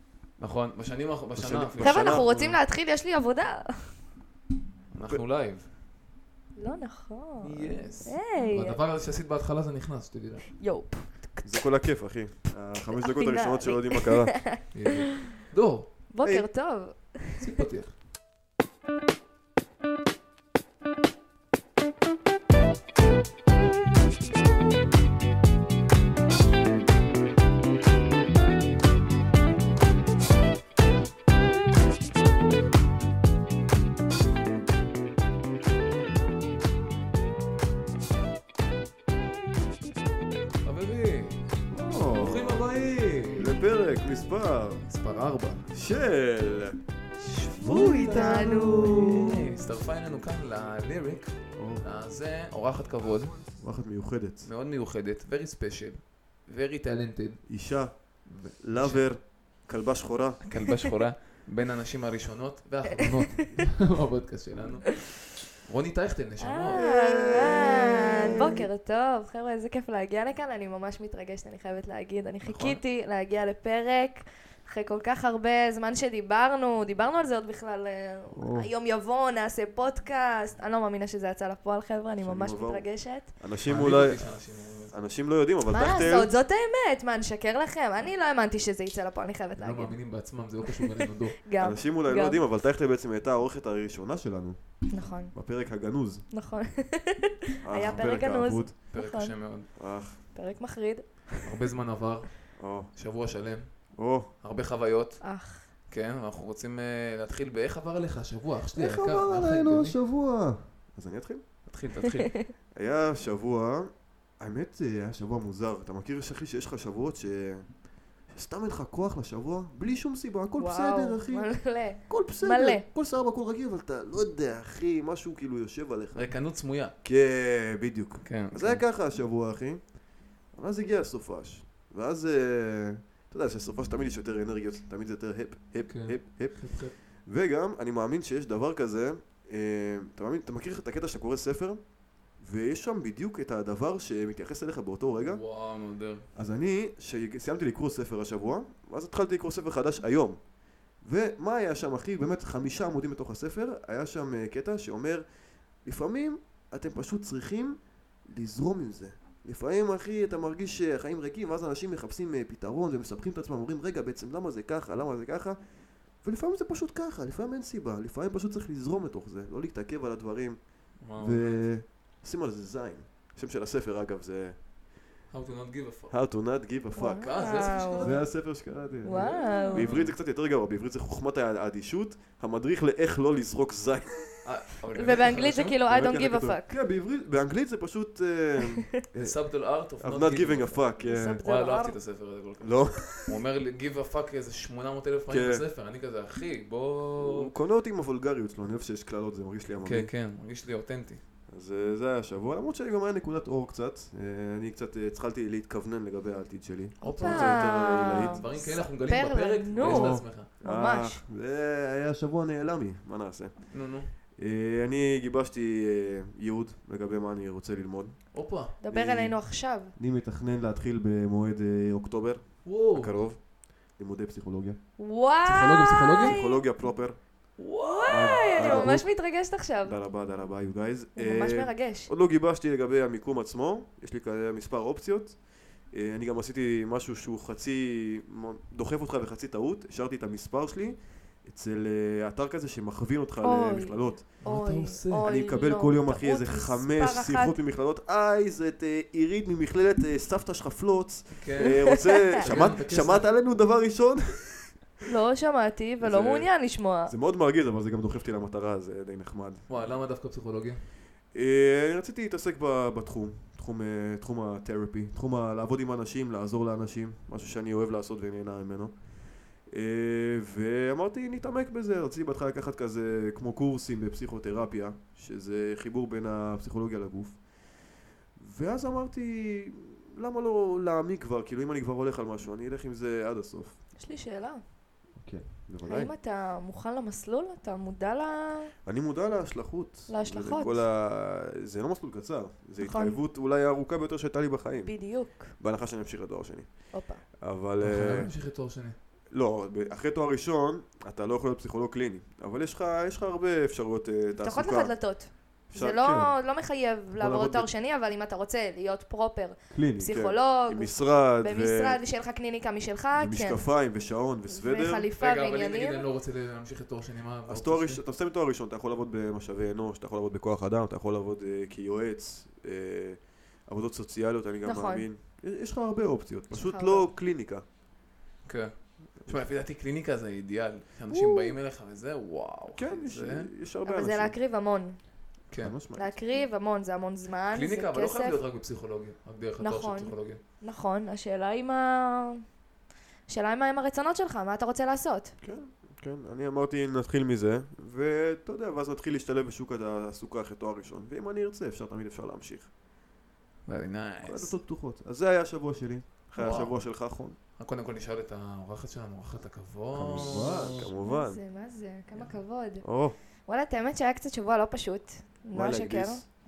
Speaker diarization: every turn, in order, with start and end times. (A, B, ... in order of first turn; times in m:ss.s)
0:00.4-0:02.6 A
0:01.3-0:02.3 B
0:01.8-0:03.9 C
0:04.9-0:05.7 A
0:06.6-0:08.8 C
0:07.4-0:10.6 A
0:10.5-0:11.5 C
0:11.4-0:14.5 B
0:13.0-0:14.7 C
0:14.7-0:15.9 A
0:16.1-0:17.6 C
0:16.2-0:16.5 B
0:17.4-0:18.0 A
0:40.6-0:41.4 A
0:41.7-0:42.7 B
0:42.1-0:43.6 A
0:43.4-0:44.8 B
0:44.9-0:45.7 A
0:45.7-0:46.8 B
0:47.2-0:53.5 A
0:47.6-0:49.4 B
0:47.6-0:49.0 C
0:51.5-0:51.8 B
0:53.5-0:54.5 B
0:54.4-0:57.4 A
0:57.5-1:00.4 B
0:58.2-0:59.1 A
1:00.4-1:08.3 A
1:03.0-1:03.4 C
1:06.4-1:23.3 C
1:06.7-1:08.6 B
1:12.4-1:12.8 A
1:18.3-1:18.7 B
1:22.2-1:26.3 B
1:23.6-1:24.9 A
1:25.7-1:30.0 C
1:29.6-1:31.4 A
1:30.7-1:32.4 C
1:31.6-1:36.2 B
1:34.9-1:35.3 C
1:36.3-1:39.4 C
1:37.6-1:38.8 B
1:38.9-1:39.7 A
1:39.8-1:40.2 B
1:40.3-1:41.4 C
1:41.4-1:43.7 A
1:42.6-1:42.9 B
1:43.9-1:44.3 B
1:44.4-1:45.2 A
1:45.2-1:45.7 C
1:45.9-1:50.0 A
1:48.7-1:51.4 B
1:51.7-1:52.3 A
1:52.1-1:52.5 C
1:52.8-1:57.8 B
1:58.3-2:06.3 B
2:00.6-2:02.8 C
2:06.1-2:06.9 A
2:07.0-2:09.8 B
2:08.2-2:08.8 A
2:10.5-2:16.6 B
2:15.8-2:16.9 A
2:17.2-2:21.8 B
2:22.4-2:25.4 B
2:25.2-2:26.3 A
2:26.3-2:30.4 B
2:31.0-2:35.2 B
2:35.8-2:45.6 B
2:46.2-2:50.6 B
2:51.0-2:51.6 A
2:51.2-2:54.6 B
2:55.3-2:56.2 A
2:56.1-3:04.4 B
2:57.0-2:58.2 C
2:57.2-2:58.2 A
2:59.0-2:59.9 C
2:59.1-3:00.2 A
3:04.4-3:05.8 A
3:05.0-3:06.7 C
3:05.9-3:09.4 B
3:09.2-3:10.9 A
3:10.0-3:11.4 B
3:11.0-3:12.0 C
3:11.4-3:17.5 A
3:12.6-3:13.4 B
3:15.3-3:15.6 B
3:17.2-3:20.1 B
3:19.8-3:21.2 A
3:21.5-3:28.4 B
3:27.0-3:31.2 C
3:27.0-3:30.5 A
3:29.8-3:33.7 B
3:33.7-3:34.1 A
3:34.4-3:38.2 B
3:38.3-3:38.8 A
3:38.8-3:39.9 C
3:38.9-3:39.4 B
3:40.0-3:43.4 B
3:42.6-3:43.2 A
3:43.9-3:44.8 B
3:45.0-3:46.6 C
3:45.4-3:46.4 A
3:46.2-3:47.2 B
3:47.6-3:49.0 A
3:47.9-3:50.0 C
3:48.1-3:49.1 B
3:49.8-3:55.4 B
3:51.2-3:52.1 C
3:55.9-4:04.4 B
4:03.4-4:07.6 C
4:04.4-4:05.3 A
4:05.2-4:14.7 B
4:11.3-4:13.3 A
4:11.6-4:12.4 C
4:15.0-4:17.1 C
4:16.0-4:16.5 B
4:17.1-4:19.6 B
4:19.7-4:20.8 A
4:21.3-4:29.0 B
4:29.7-4:37.4 B
4:38.4-4:43.8 B
4:44.0-4:44.6 C
4:45.2-4:46.1 B
4:45.8-4:48.7 C
4:48.8-4:58.3 B
4:50.1-4:50.8 C
4:52.8-4:53.2 C
4:54.8-4:55.5 C
4:56.9-4:57.2 C
4:57.8-4:59.0 A
4:59.3-5:05.0 B
5:04.4-5:13.6 C
5:05.7-5:06.4 B
5:07.2-5:07.7 B
5:09.7-5:12.0 B
5:13.2-5:15.1 B
5:14.5-5:16.0 C
5:15.2-5:18.0 A
5:17.5-5:27.6 B
5:24.6-5:25.0 C
5:26.5-5:27.1 C
5:28.4-5:33.5 A
5:31.1-5:31.6 C
5:32.8-5:34.3 B
5:33.8-5:35.0 C
5:35.5-5:35.8 A
5:35.6-5:36.1 B
5:36.0-5:38.4 C
5:37.5-5:40.4 A
5:39.6-5:42.4 C
5:43.3-5:45.3 C
5:45.4-5:52.7 B
5:53.7-5:54.5 A
5:54.2-5:57.4 B
5:56.4-5:56.6 C
5:56.4-5:56.8 A
5:57.6-6:00.9 A
5:59.9-6:01.4 B
6:01.0-6:02.8 C
6:02.8-6:03.2 B
6:03.4-6:06.3 C
6:05.5-6:06.2 B